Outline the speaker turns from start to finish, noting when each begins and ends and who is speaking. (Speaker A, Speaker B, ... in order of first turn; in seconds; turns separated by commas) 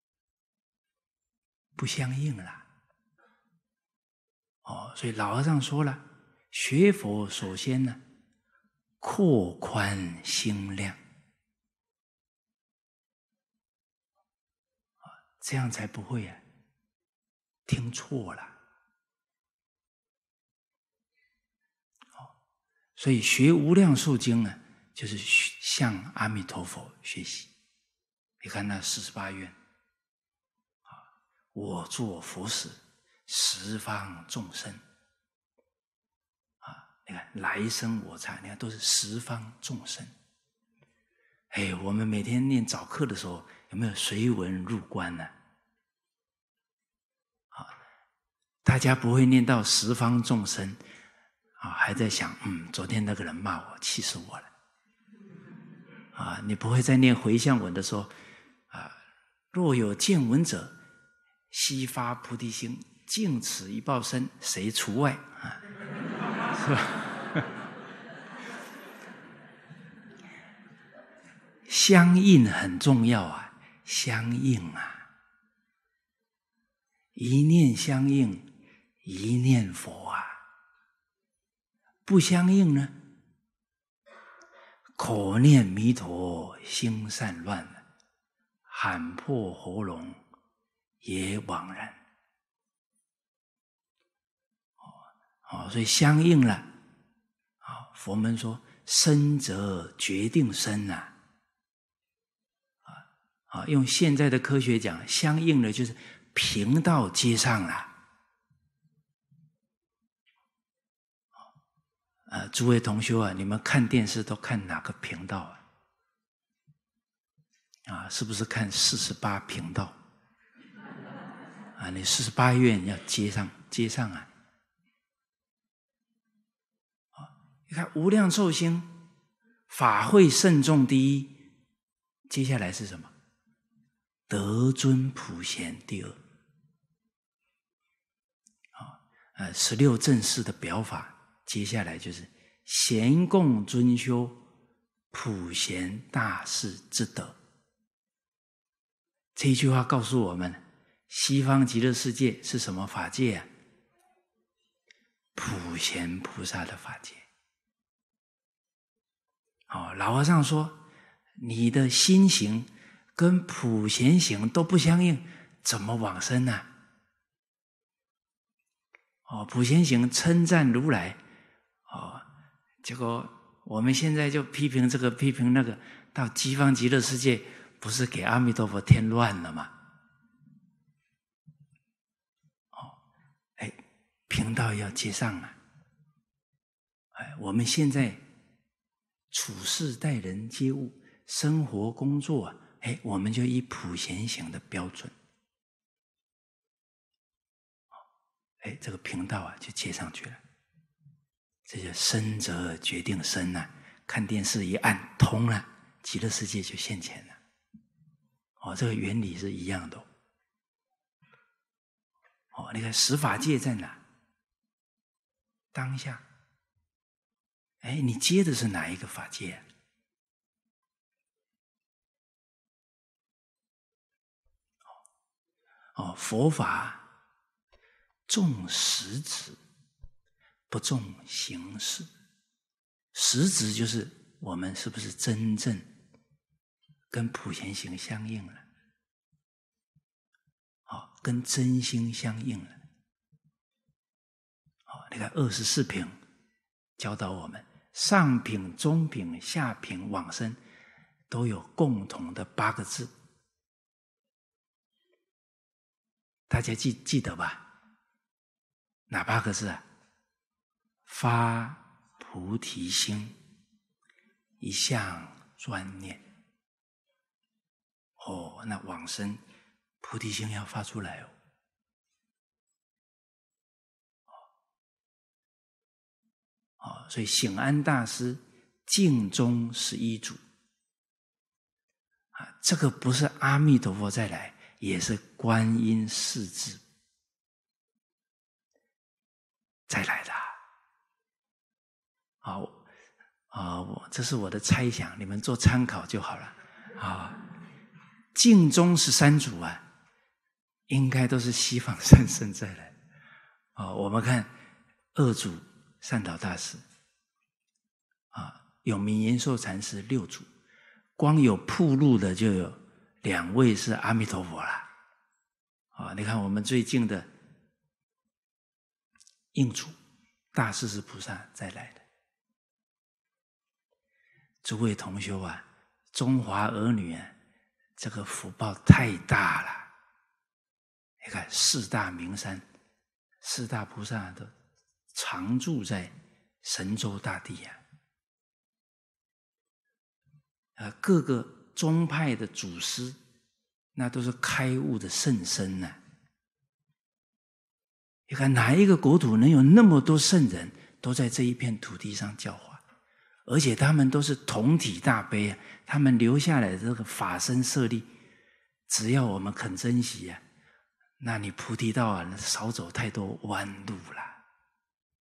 Speaker A: 1.8-2.7, Speaker A: 4.6-8.0, Speaker A: 9.0-11.0, Speaker A: 15.4-16.4, Speaker A: 17.6-18.6, Speaker A: 22.9-27.5, Speaker A: 28.4-29.6, Speaker A: 31.5-34.8, Speaker A: 36.6-40.1, Speaker A: 41.5-45.3, Speaker A: 48.6-50.8, Speaker A: 51.6-54.5, Speaker A: 56.1-58.1, Speaker A: 58.7-59.0, Speaker A: 59.5-60.7, Speaker A: 61.5-65.6, Speaker A: 66.5-67.4, Speaker A: 71.7-75.1, Speaker A: 77.1-78.5, Speaker A: 79.0-80.4, Speaker A: 82.0-82.9, Speaker A: 85.0-87.8, Speaker A: 88.7-90.2, Speaker A: 91.0-92.0, Speaker A: 94.8-96.7, Speaker A: 97.6-101.1, Speaker A: 102.9-107.9, Speaker A: 112.3-115.6, Speaker A: 117.8-120.0, Speaker A: 121.8-124.3, Speaker A: 127.2-128.9, Speaker A: 129.7-131.4, Speaker A: 132.3-133.1, Speaker A: 134.3-136.2, Speaker A: 138.8-144.4, Speaker A: 145.1-147.3, Speaker A: 149.3-153.5, Speaker A: 155.3-157.2, Speaker A: 159.7-160.8, Speaker A: 161.4-166.7, Speaker A: 169.2-171.2, Speaker A: 171.9-172.2, Speaker A: 172.8-179.7, Speaker A: 183.6-185.6, Speaker A: 187.1-188.2, Speaker A: 189.3-195.1, Speaker A: 198.6-200.4, Speaker A: 201.7-207.4, Speaker A: 208.6-210.1, Speaker A: 212.5-214.0, Speaker A: 215.7-216.2, Speaker A: 217.8-219.6, Speaker A: 225.9-227.1, Speaker A: 228.3-229.6, Speaker A: 230.7-232.1, Speaker A: 233.1-235.9, Speaker A: 237.1-238.6, Speaker A: 240.9-242.8, Speaker A: 244.9-246.2, Speaker A: 247.0-250.6, Speaker A: 251.3-253.1, Speaker A: 256.5-257.6, Speaker A: 259.1-259.8, Speaker A: 261.1-263.4, Speaker A: 264.6-266.2, Speaker A: 268.2-269.4, Speaker A: 270.0-271.3, Speaker A: 276.8-280.4, Speaker A: 282.3-286.8, Speaker A: 289.9-290.6, Speaker A: 292.4-292.8, Speaker A: 293.5-297.4, Speaker A: 298.3-299.8, Speaker A: 300.9-302.9, Speaker A: 303.8-304.5, Speaker A: 305.1-306.8, Speaker A: 308.3-310.5, Speaker A: 311.2-314.9, Speaker A: 315.9-317.3, Speaker A: 319.5-319.9, Speaker A: 320.5-322.0, Speaker A: 324.6-327.3, Speaker A: 328.0-329.9, Speaker A: 331.2-332.6, Speaker A: 333.4-334.5, Speaker A: 335.1-337.8, Speaker A: 340.8-343.2, Speaker A: 343.9-346.0, Speaker A: 348.3-352.8, Speaker A: 353.4-358.1, Speaker A: 358.9-360.4, Speaker A: 361.2-364.4